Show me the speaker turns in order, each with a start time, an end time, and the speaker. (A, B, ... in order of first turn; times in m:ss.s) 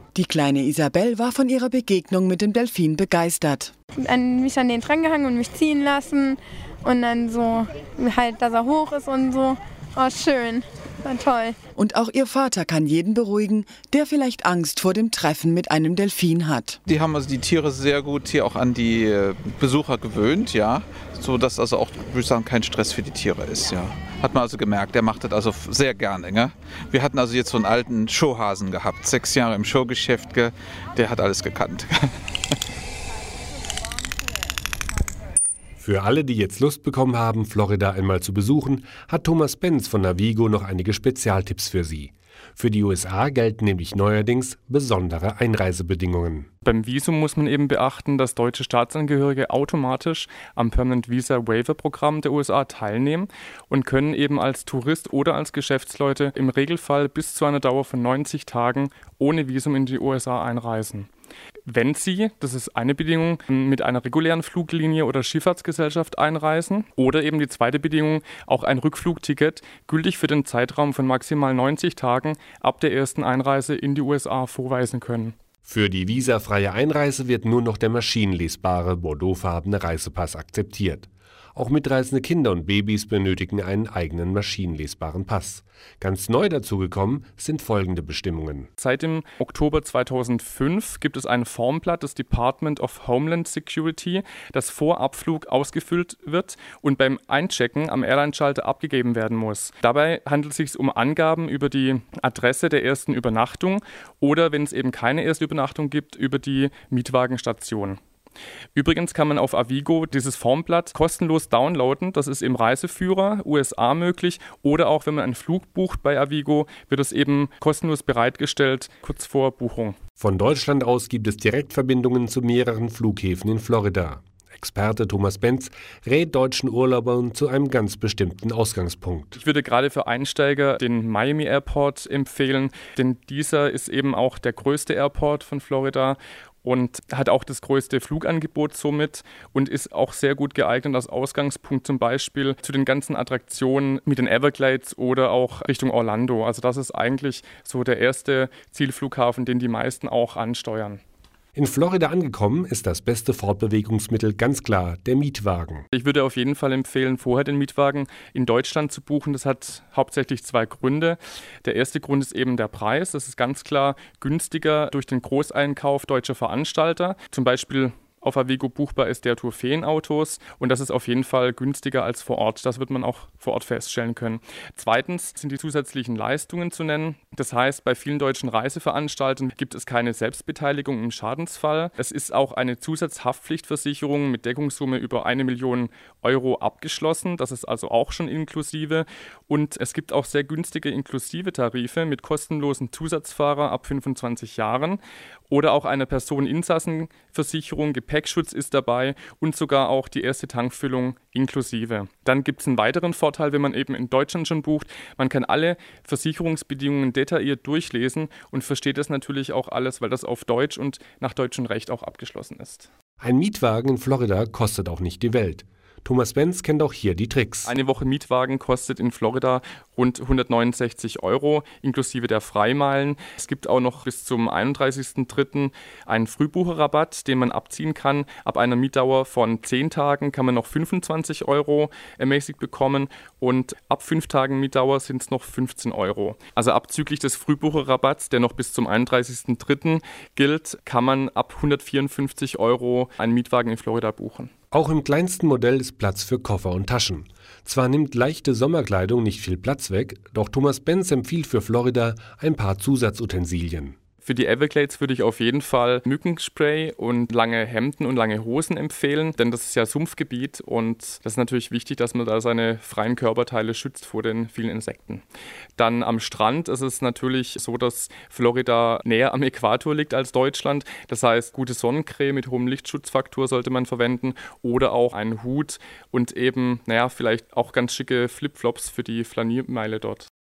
0:00.1-0:03.7 A
0:04.0-0:11.6 B
0:11.8-0:16.8 A
0:16.8-0:32.1 C
0:35.8-0:46.5 D
0:46.6-1:01.1 E
1:01.7-1:15.3 E
1:15.6-1:28.7 D
1:28.8-1:48.0 E
1:48.7-2:00.0 E
2:00.2-2:09.4 D
2:09.4-2:31.0 E
2:31.5-2:35.8 D
2:35.9-3:32.9 E
3:33.2-3:37.7 D
3:37.6-4:04.5 E
4:04.7-4:14.0 D
4:14.2-4:25.2 E
4:25.8-4:40.3 E